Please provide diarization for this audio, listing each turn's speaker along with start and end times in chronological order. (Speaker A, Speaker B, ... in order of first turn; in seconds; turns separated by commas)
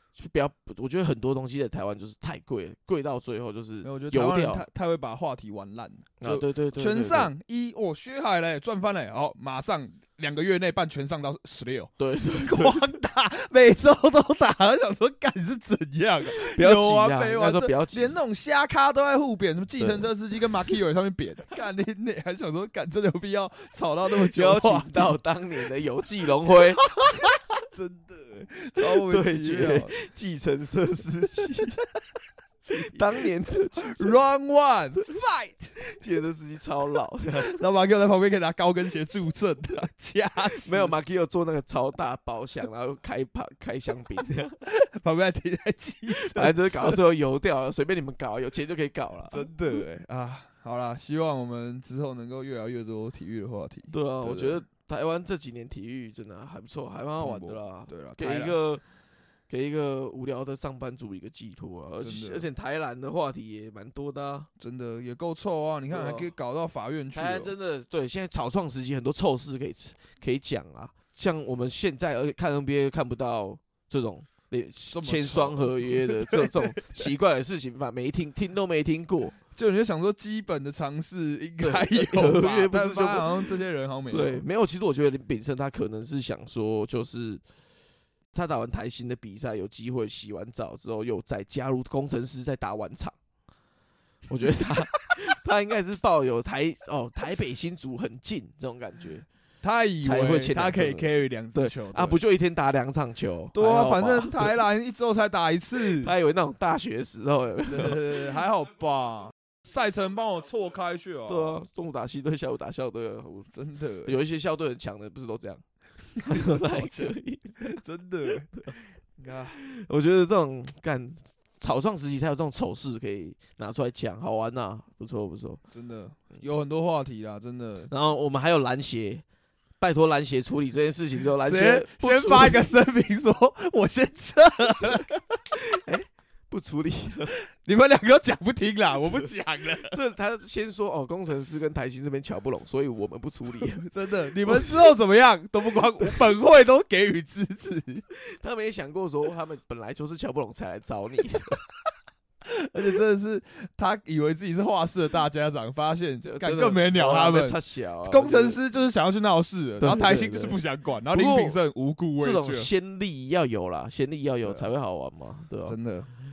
Speaker A: 0.2-4.7, Speaker B: 3.8-25.2, Speaker A: 6.2-7.3, Speaker A: 12.0-12.9, Speaker A: 16.3-18.1, Speaker A: 19.8-20.1, Speaker A: 24.2-26.8, Speaker B: 26.8-29.9, Speaker A: 28.8-31.8, Speaker A: 32.7-34.2, Speaker B: 32.9-35.7, Speaker A: 35.8-37.6, Speaker B: 37.4-40.9, Speaker A: 40.5-44.6, Speaker B: 44.6-47.0, Speaker A: 46.1-49.5, Speaker B: 49.3-54.6, Speaker A: 53.9-58.8, Speaker B: 57.2-58.6, Speaker A: 59.5-64.5, Speaker B: 62.0-62.5, Speaker B: 64.6-67.5, Speaker A: 65.9-66.3, Speaker A: 67.1-79.3, Speaker B: 74.9-77.0, Speaker B: 79.5-84.4, Speaker A: 81.6-83.3, Speaker A: 84.1-87.4, Speaker A: 88.3-93.2, Speaker A: 94.3-99.2, Speaker B: 94.5-94.8, Speaker B: 99.6-102.2, Speaker A: 100.0-104.6, Speaker B: 103.5-106.1, Speaker A: 105.8-108.0, Speaker B: 107.7-111.6, Speaker A: 111.3-113.5, Speaker B: 113.5-114.1, Speaker A: 114.0-115.6, Speaker A: 116.2-117.8, Speaker B: 116.2-119.6, Speaker A: 119.5-125.6, Speaker B: 125.7-127.9, Speaker A: 127.9-129.2, Speaker A: 129.8-132.7, Speaker B: 131.4-135.4, Speaker A: 135.5-137.4, Speaker B: 137.5-139.9, Speaker A: 139.8-143.9, Speaker B: 143.8-148.0, Speaker A: 144.4-144.9, Speaker A: 148.1-151.6, Speaker B: 152.4-162.7, Speaker A: 156.2-158.6, Speaker A: 159.8-160.6, Speaker A: 161.1-161.6, Speaker A: 162.2-165.8, Speaker B: 164.4-164.7, Speaker B: 165.6-166.1